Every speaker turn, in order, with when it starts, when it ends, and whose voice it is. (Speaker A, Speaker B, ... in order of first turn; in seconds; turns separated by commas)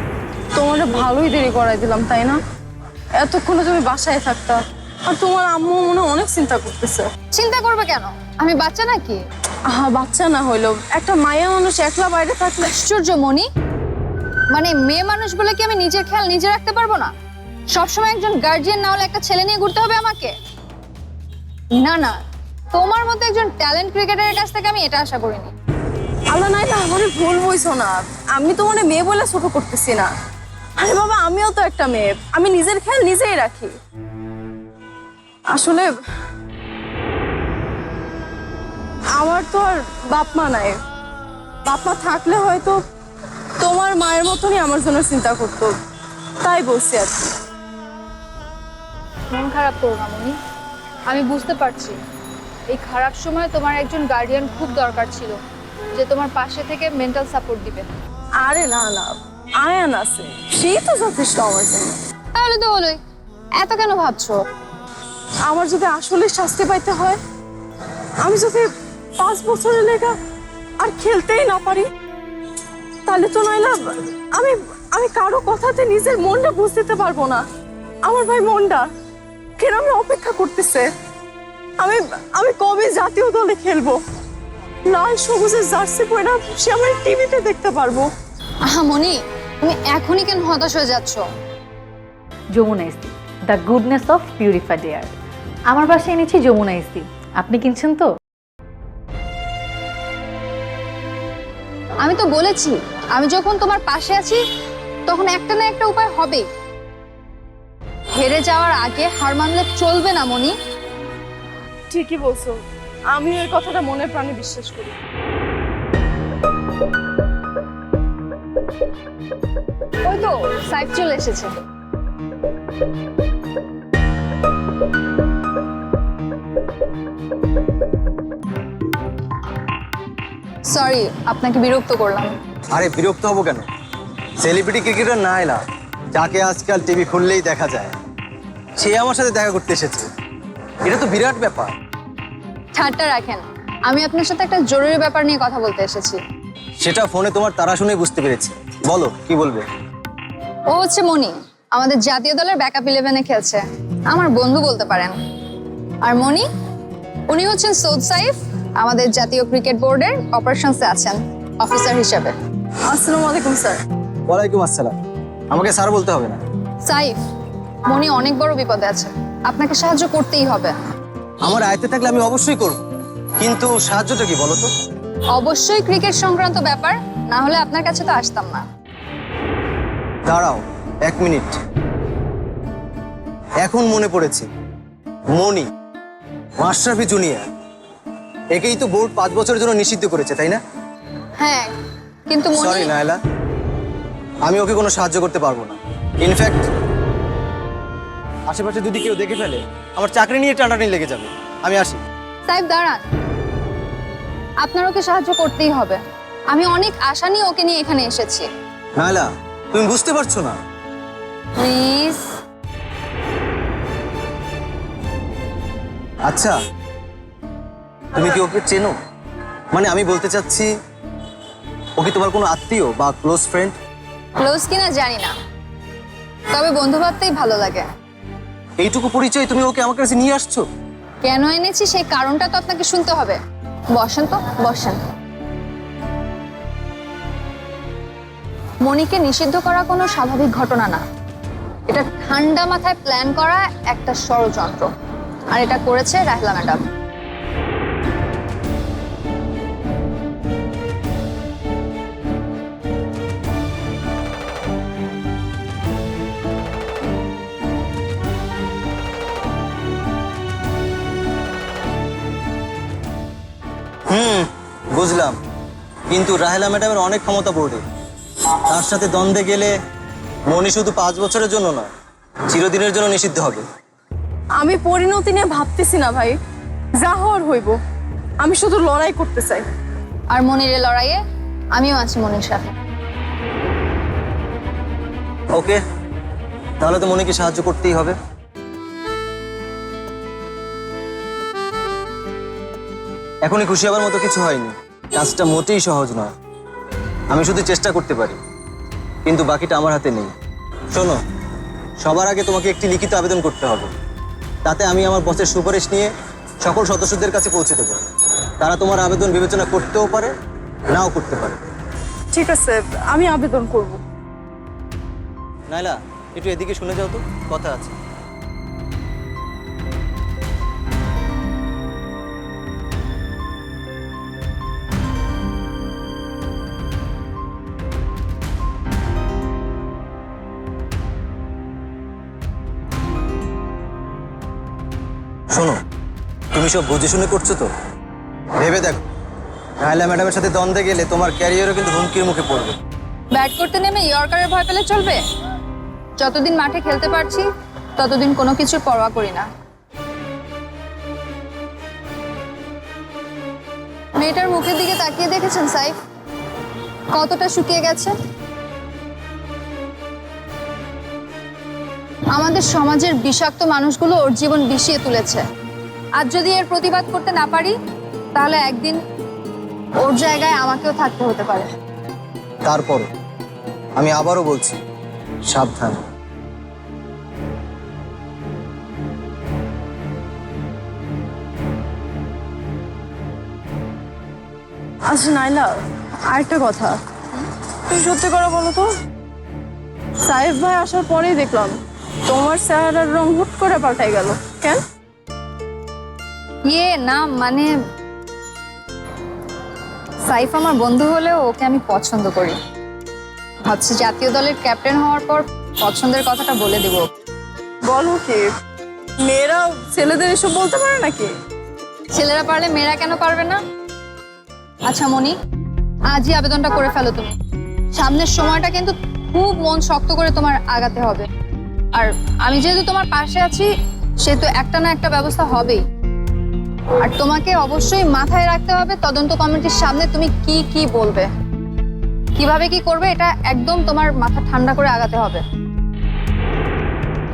Speaker A: 0.5-2.4, Speaker A: 3.1-7.1, Speaker B: 7.3-9.2, Speaker A: 9.7-12.7, Speaker B: 12.7-13.5, Speaker B: 14.5-17.1, Speaker B: 17.7-20.3, Speaker B: 21.8-22.2, Speaker B: 22.7-25.5, Speaker A: 26.3-30.1, Speaker A: 30.8-33.8, Speaker A: 35.5-35.9, Speaker A: 39.1-40.8, Speaker A: 41.6-42.8, Speaker A: 43.6-45.7, Speaker A: 46.4-47.4, Speaker B: 49.3-50.4, Speaker B: 51.1-52.0, Speaker B: 52.7-55.4, Speaker B: 55.9-57.9, Speaker A: 58.4-62.0, Speaker B: 62.3-63.0, Speaker B: 63.6-64.4, Speaker A: 65.5-67.2, Speaker A: 68.2-68.7, Speaker A: 69.2-70.1, Speaker A: 70.8-71.9, Speaker A: 73.0-77.4, Speaker A: 78.0-78.9, Speaker A: 79.6-80.9, Speaker A: 81.8-84.0, Speaker A: 84.8-88.1, Speaker B: 88.7-91.2, Speaker C: 92.5-95.1, Speaker C: 95.7-98.1, Speaker B: 102.0-104.4, Speaker B: 105.1-106.5, Speaker B: 108.2-110.5, Speaker A: 111.9-112.6, Speaker A: 113.1-115.0, Speaker B: 120.0-121.5, Speaker B: 130.7-132.3, Speaker D: 132.7-133.6, Speaker D: 134.4-135.6, Speaker D: 136.1-137.9, Speaker D: 138.8-140.1, Speaker D: 140.8-141.7, Speaker B: 142.7-146.2, Speaker D: 146.8-149.7, Speaker B: 150.7-155.1, Speaker B: 156.0-156.4, Speaker B: 157.3-162.3, Speaker A: 162.9-163.8, Speaker D: 164.3-164.9, Speaker D: 165.5-166.4, Speaker B: 166.9-167.2, Speaker B: 167.9-170.7, Speaker D: 171.4-172.8, Speaker D: 173.4-174.7, Speaker B: 175.3-178.6, Speaker D: 180.3-181.6, Speaker D: 183.6-184.5, Speaker D: 185.3-185.7, Speaker D: 186.6-187.5, Speaker D: 188.5-190.6, Speaker B: 191.4-191.7, Speaker B: 192.3-192.9, Speaker D: 192.6-193.2, Speaker D: 194.4-196.7, Speaker D: 198.5-202.0, Speaker B: 202.5-203.0, Speaker B: 204.6-206.0, Speaker B: 206.5-208.5, Speaker D: 209.0-210.6, Speaker B: 211.6-212.3, Speaker D: 216.2-216.6, Speaker D: 218.1-218.9, Speaker D: 219.7-220.7, Speaker D: 222.0-223.8, Speaker B: 224.4-225.3, Speaker B: 226.5-227.8, Speaker D: 228.8-230.6, Speaker B: 231.2-233.4, Speaker B: 233.9-235.0, Speaker B: 238.8-241.0, Speaker B: 241.9-244.9, Speaker B: 245.5-246.8, Speaker D: 264.1-265.4, Speaker D: 266.1-267.8, Speaker D: 268.6-269.7, Speaker D: 270.5-271.9, Speaker D: 272.5-273.6, Speaker A: 274.6-276.4, Speaker A: 277.0-277.8, Speaker A: 278.4-279.6, Speaker B: 280.3-281.2, Speaker B: 281.7-282.6, Speaker D: 285.5-285.8, Speaker D: 286.8-288.1, Speaker D: 293.4-296.3, Speaker D: 297.3-298.4, Speaker D: 299.2-300.3, Speaker D: 300.9-301.2, Speaker D: 302.0-303.9, Speaker D: 304.6-306.1, Speaker D: 306.6-308.0, Speaker D: 308.6-310.3, Speaker D: 310.9-311.6, Speaker A: 312.3-314.0, Speaker D: 315.7-317.9, Speaker D: 335.5-335.8, Speaker D: 336.5-337.7, Speaker D: 338.6-339.0, Speaker D: 339.8-342.7, Speaker B: 343.3-345.2, Speaker B: 346.2-347.4, Speaker B: 348.0-349.5, Speaker B: 354.2-355.9, Speaker B: 357.1-358.1, Speaker B: 362.3-365.4, Speaker B: 366.2-367.7, Speaker B: 368.4-369.0, Speaker B: 370.0-371.7, Speaker D: 372.6-373.1, Speaker D: 374.0-374.8, Speaker D: 375.5-376.0, Speaker A: 385.1-385.7, Speaker A: 386.3-388.9, Speaker A: 390.2-391.7, Speaker A: 392.3-394.8, Speaker B: 396.7-397.7, Speaker B: 400.3-402.6, Speaker B: 403.6-407.0, Speaker A: 407.9-408.5, Speaker A: 409.2-411.3, Speaker B: 412.1-413.6, Speaker B: 414.9-415.3, Speaker B: 416.1-417.3, Speaker B: 417.9-421.3, Speaker B: 421.9-423.7, Speaker B: 424.2-425.8, Speaker B: 427.0-431.3, Speaker B: 432.4-435.4